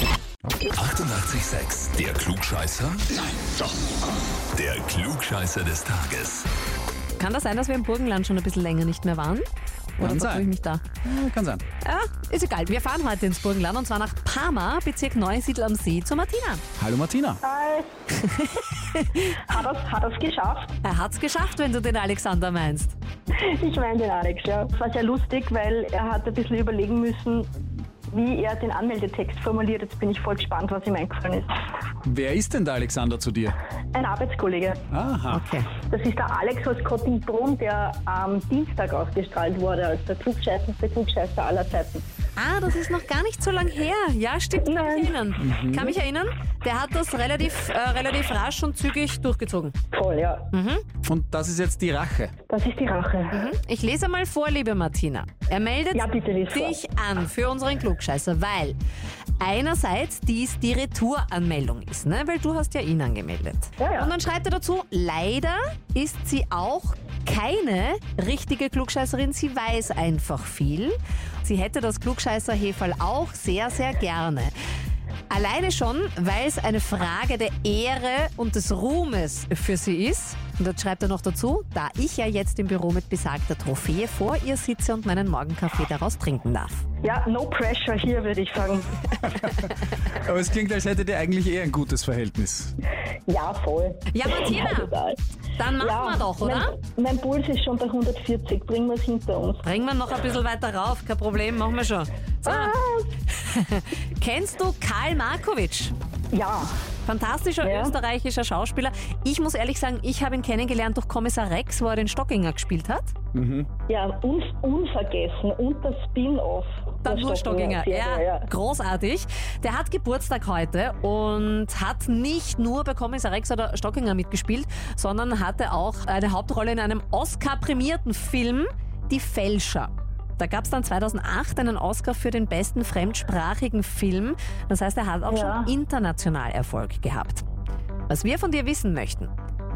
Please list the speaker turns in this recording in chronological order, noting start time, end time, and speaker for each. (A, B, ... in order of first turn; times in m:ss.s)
0:00.7-0:03.3 A
0:04.5-0:06.5 A
0:07.2-0:09.5 B
0:10.0-0:10.5 C
0:10.0-0:10.8 B
0:11.0-0:11.6 C
0:11.8-0:16.6 B
0:16.8-0:17.4 C
0:17.4-0:17.9 D
0:18.2-0:19.2 B
0:19.2-0:20.7 D
0:20.8-0:22.9 B
0:23.3-0:27.5 D
0:28.1-0:31.5 D
0:32.0-0:33.6 C
0:33.9-0:34.8 D
0:34.9-0:35.4 C
0:35.3-0:35.7 B
0:35.9-0:42.0 D
0:42.4-0:49.7 B
0:44.7-0:45.1 D
0:45.4-0:46.0 C
0:49.9-0:50.5 D
0:50.5-0:50.8 B
0:51.0-0:52.3 C
0:52.5-0:53.4 D
0:53.3-0:58.8 B
0:55.9-0:56.8 D
0:59.4-1:14.5 B
1:03.8-1:04.1 D
1:15.3-1:26.8 B
1:27.0-1:29.3 D
1:29.4-1:32.8 C
1:33.3-1:35.2 D
1:34.1-1:34.9 B
1:35.6-1:36.7 B
1:35.8-1:39.6 D
1:39.6-1:42.7 B
1:42.4-1:43.1 D
1:43.3-1:45.9 B
1:46.3-1:46.7 D
1:47.0-1:53.1 B
1:47.6-1:47.9 D
1:53.3-1:53.7 C
1:53.9-1:58.5 D
1:57.0-2:17.4 B
2:15.3-2:15.7 D
2:18.1-2:19.3 B